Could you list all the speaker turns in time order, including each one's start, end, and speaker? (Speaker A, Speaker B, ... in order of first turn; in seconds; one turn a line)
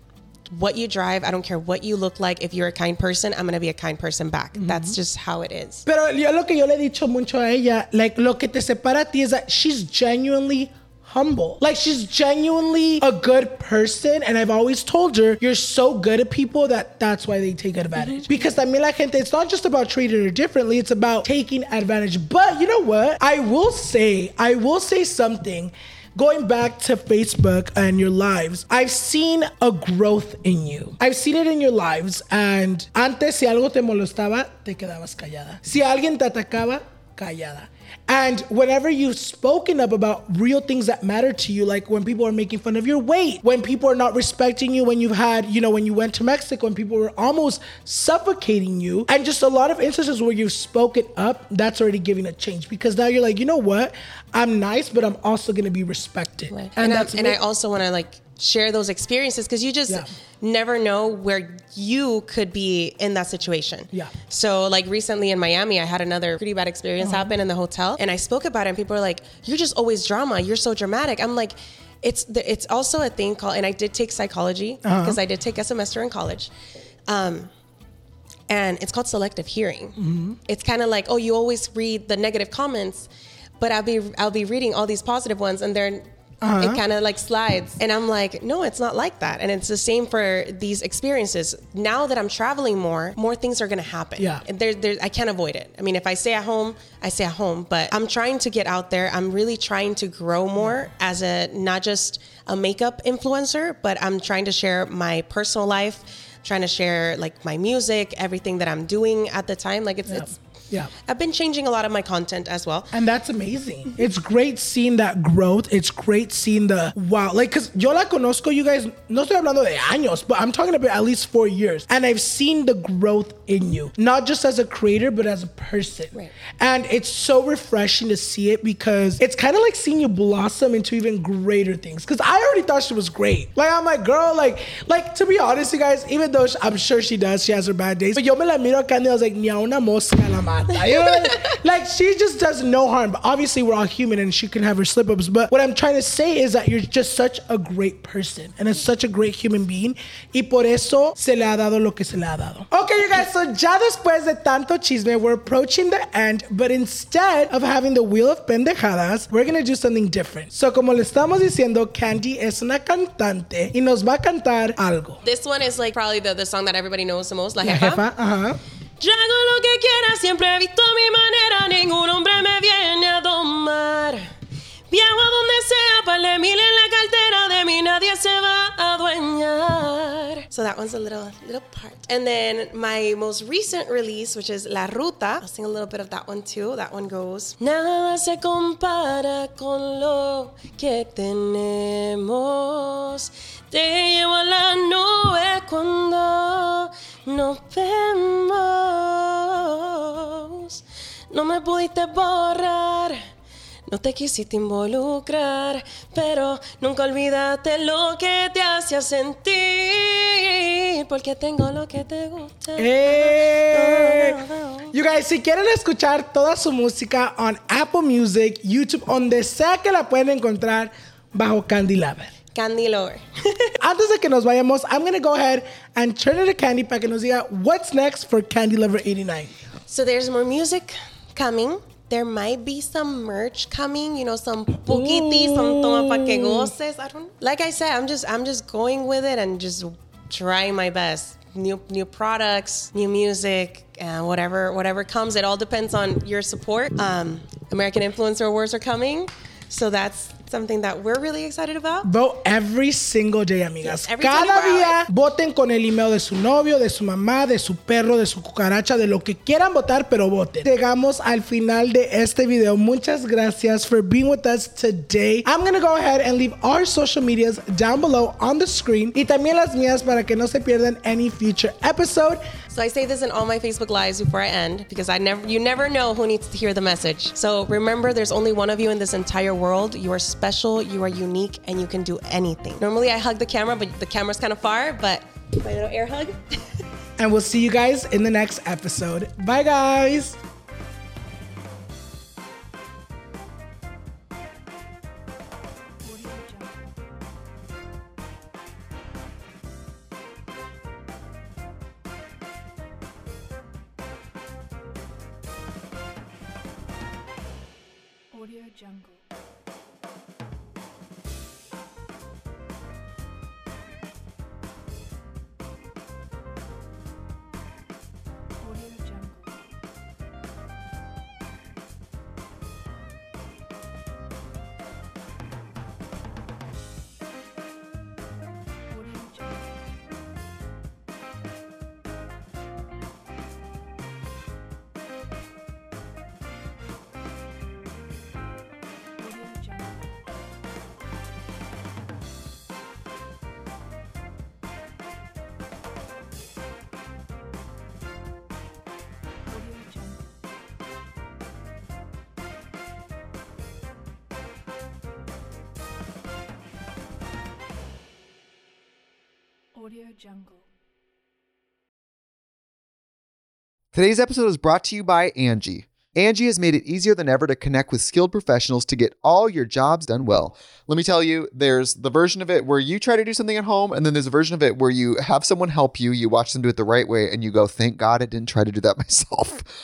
Speaker A: 0.5-5.8
Speaker B: 4.6-5.0
Speaker B: 5.9-57.4
Speaker A: 18.0-18.3
Speaker A: 56.5-76.5
Speaker B: 67.0-67.3
Speaker B: 74.8-75.2
Speaker A: 77.1-77.5
Speaker A: 78.5-83.1
Speaker B: 80.0-80.4
Speaker A: 83.6-86.0
Speaker B: 86.4-86.8
Speaker A: 86.6-110.4
Speaker B: 94.2-94.4
Speaker B: 110.1-110.9
Speaker A: 111.1-112.9
Speaker B: 112.9-165.2
Speaker A: 141.0-141.6
Speaker A: 165.2-168.0
Speaker B: 167.6-168.6
Speaker A: 169.0-174.3
Speaker A: 174.9-203.2
Speaker A: 203.9-214.9
Speaker B: 212.8-222.3
Speaker A: 222.5-223.7
Speaker B: 223.8-229.5
Speaker A: 229.9-252.1
Speaker B: 234.9-236.7
Speaker B: 252.0-272.4
Speaker A: 253.8-255.0
Speaker A: 272.7-286.6
Speaker B: 287.2-290.4
Speaker C: 296.0-297.0
Speaker C: 308.3-309.2
Speaker C: 318.6-319.7
Speaker C: 328.9-330.0
Speaker C: 339.2-340.1
Speaker C: 349.5-350.4
Speaker C: 359.8-360.7
Speaker D: 363.9-379.7